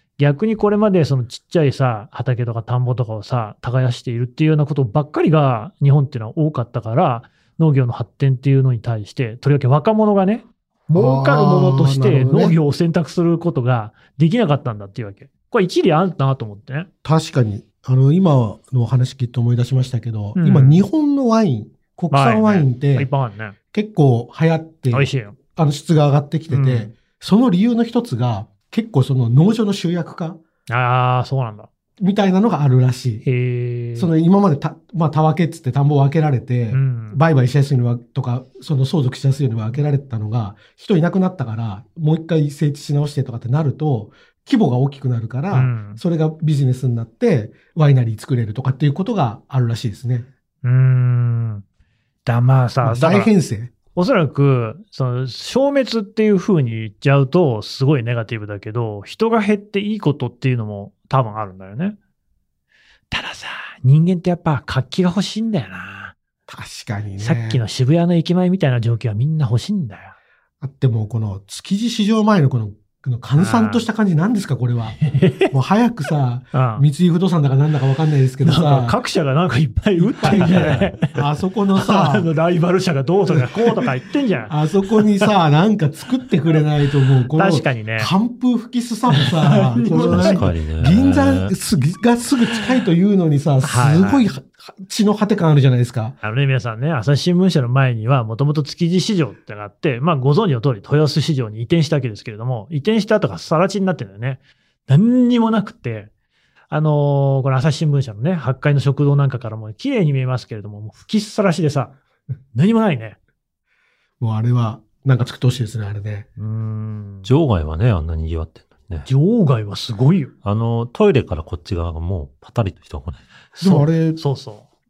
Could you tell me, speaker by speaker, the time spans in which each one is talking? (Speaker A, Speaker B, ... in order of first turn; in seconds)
Speaker A: 0.2-16.9, 20.3-20.8, 22.1-23.6, 24.9-25.3, 26.5-26.9, 30.7-31.7, 33.2-34.1, 36.7-37.2, 45.5-46.0, 50.6-51.6, 52.2-53.3, 53.9-62.0, 63.1-66.1, 67.2-70.1, 73.4-73.8, 75.0-75.5, 76.5-76.8, 78.4-85.3, 87.3-88.1, 89.2-90.5, 93.6-94.3, 96.2-106.1, 106.7-111.9, 112.5-113.2, 116.4-117.3, 119.0-120.3, 123.5-124.7
Speaker B: 10.9-12.6, 17.0-23.1, 23.7-30.4, 32.0-33.2, 33.9-50.3, 52.8-53.7, 66.5-67.6, 70.6-79.0, 80.0-82.3, 83.2-83.9, 84.5-96.2, 114.2-116.3, 123.6-124.2
Speaker C: 80.2-80.9, 89.9-91.5, 117.2-119.1, 120.4-123.2